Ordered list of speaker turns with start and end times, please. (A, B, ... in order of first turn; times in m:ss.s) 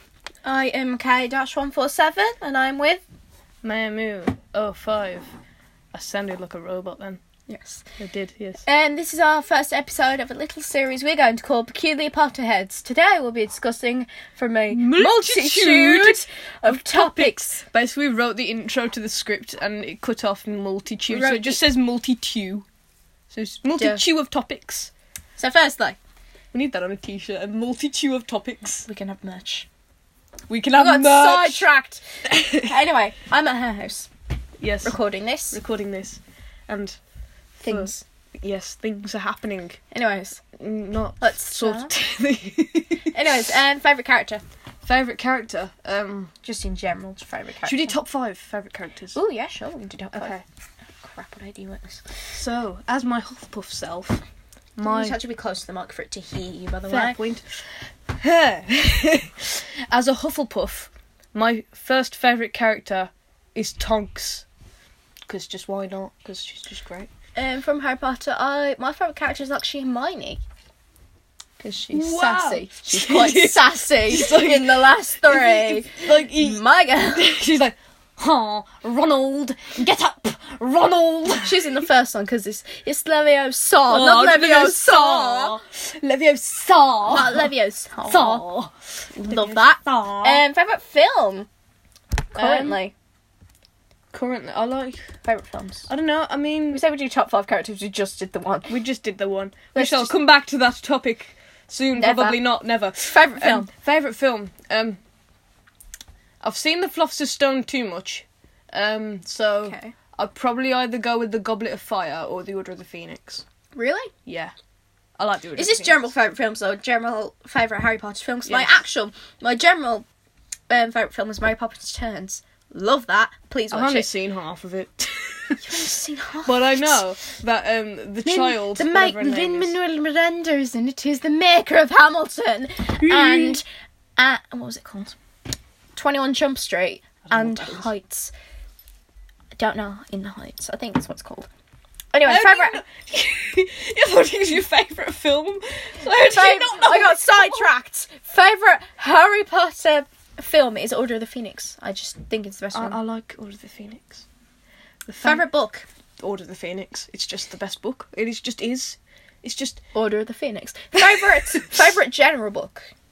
0:00.4-0:03.0 A
0:03.6-0:05.3 B
0:05.9-0:07.2 B
0:07.5-0:07.9 A
0:08.0-0:08.6 B
0:08.6-0:17.6 A
0:14.7-0:22.7 B
0:21.1-0:21.6 A
0:23.3-0:24.9 B
0:23.7-0:24.0 A
0:25.4-0:26.0 A
0:26.5-0:28.9 B
0:28.9-0:29.7 A
0:30.5-0:31.7 B
0:30.8-0:34.1 A
0:32.3-0:32.7 B
0:34.6-0:35.0 B
0:34.8-0:35.6 A
0:35.5-0:37.0 B
0:37.6-0:38.0 A
0:37.6-0:39.8 B
0:39.9-0:40.4 A
0:40.6-0:43.2 B
0:41.2-0:41.9 A
0:43.1-0:44.4 A
0:44.8-0:46.3 B
0:46.4-0:48.0 A
0:47.6-0:49.2 B
0:49.1-0:50.4 A
0:50.1-0:50.4 B
0:51.0-0:52.2 A
0:52.3-0:54.2 B
0:54.8-0:55.2 B
0:54.8-0:57.2 A
0:56.9-0:57.5 B
0:58.1-1:04.4 B
1:05.3-1:07.1 B
1:07.4-1:10.4 A
1:11.6-1:17.3 A
1:11.9-1:21.9 B
1:21.4-1:25.6 A
1:23.8-1:27.5 B
1:27.0-1:28.5 A
1:28.1-1:30.4 B
1:29.2-1:31.5 A
1:32.3-1:32.9 A
1:32.3-1:32.8 B
1:34.1-1:35.1 B
1:35.2-1:35.9 A
1:35.9-1:36.8 B
1:36.7-1:38.7 A
1:38.7-1:45.0 B
1:39.7-1:40.2 A
1:42.0-1:42.4 A
1:43.0-1:43.7 A
1:46.4-1:53.4 B
1:49.6-1:50.0 A
1:53.7-1:54.1 A
1:54.3-1:54.5 B
1:55.2-1:56.1 B
1:55.6-2:00.1 A
1:58.5-1:58.8 B
2:00.7-2:04.1 A
2:03.7-2:05.9 B
2:05.6-2:07.1 A
2:06.4-2:09.8 B
2:08.2-2:13.7 A
2:13.0-2:13.6 B
2:14.2-2:15.2 A
2:16.0-2:18.3 A
2:17.3-2:17.9 B
2:19.6-2:21.5 A
2:22.1-2:22.8 A
2:22.2-2:27.7 B
2:26.2-2:33.0 A
2:32.7-2:34.2 B
2:35.1-2:35.5 B
2:35.2-2:35.9 A
2:36.2-2:39.8 B
2:39.9-2:42.8 A
2:41.0-2:41.7 B